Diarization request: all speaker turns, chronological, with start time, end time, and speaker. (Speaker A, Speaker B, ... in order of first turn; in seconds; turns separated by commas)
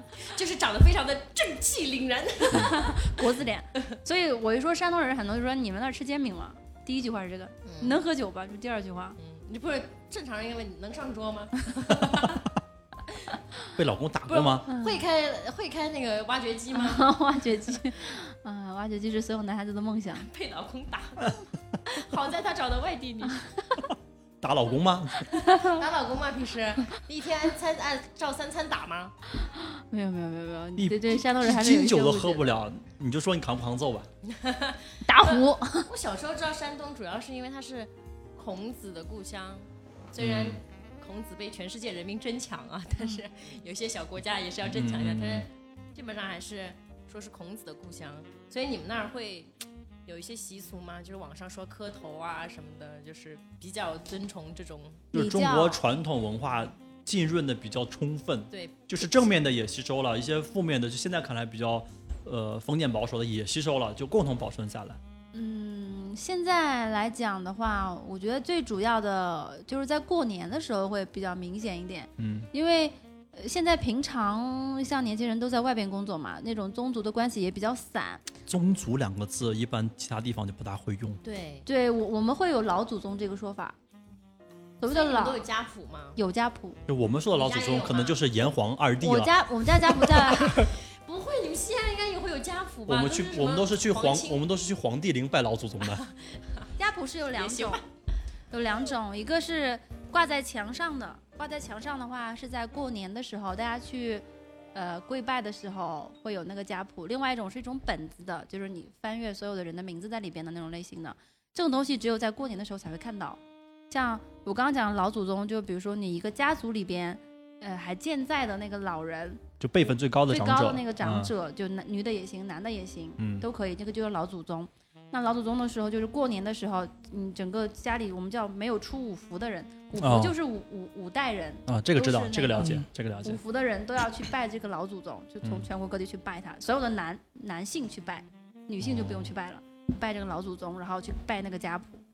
Speaker A: 0.2-3.1, Speaker B: 2.5-9.2, Speaker A: 7.7-8.0, Speaker A: 9.2-12.4, Speaker C: 13.8-14.7, Speaker A: 14.3-17.1, Speaker B: 14.7-15.0, Speaker B: 16.7-20.3, Speaker A: 20.1-21.3, Speaker A: 21.9-23.4, Speaker C: 24.4-25.3, Speaker B: 25.4-25.8, Speaker A: 25.4-29.1, Speaker B: 29.4-32.5, Speaker C: 30.8-34.1, Speaker A: 34.2-49.5, Speaker B: 35.0-35.9, Speaker C: 40.2-40.6, Speaker C: 44.6-45.5, Speaker A: 50.0-55.1, Speaker C: 55.1-65.0, Speaker B: 55.1-55.8, Speaker A: 58.5-59.1, Speaker B: 65.3-78.2, Speaker C: 72.2-72.5, Speaker C: 78.5-81.2, Speaker A: 81.2-81.7, Speaker B: 81.7-83.8, Speaker B: 84.8-85.4, Speaker A: 84.8-86.2, Speaker B: 86.2-86.8, Speaker C: 86.9-89.3, Speaker A: 87.3-88.3, Speaker B: 89.0-90.7, Speaker A: 90.4-94.4, Speaker C: 92.9-96.1, Speaker A: 96.0-96.6, Speaker B: 96.8-97.8, Speaker A: 97.3-97.8, Speaker B: 98.5-113.4, Speaker B: 113.9-119.4, Speaker C: 119.6-121.3, Speaker B: 120.3-142.0, Speaker C: 123.2-123.5, Speaker C: 130.0-130.3, Speaker C: 131.7-133.4, Speaker C: 138.8-139.3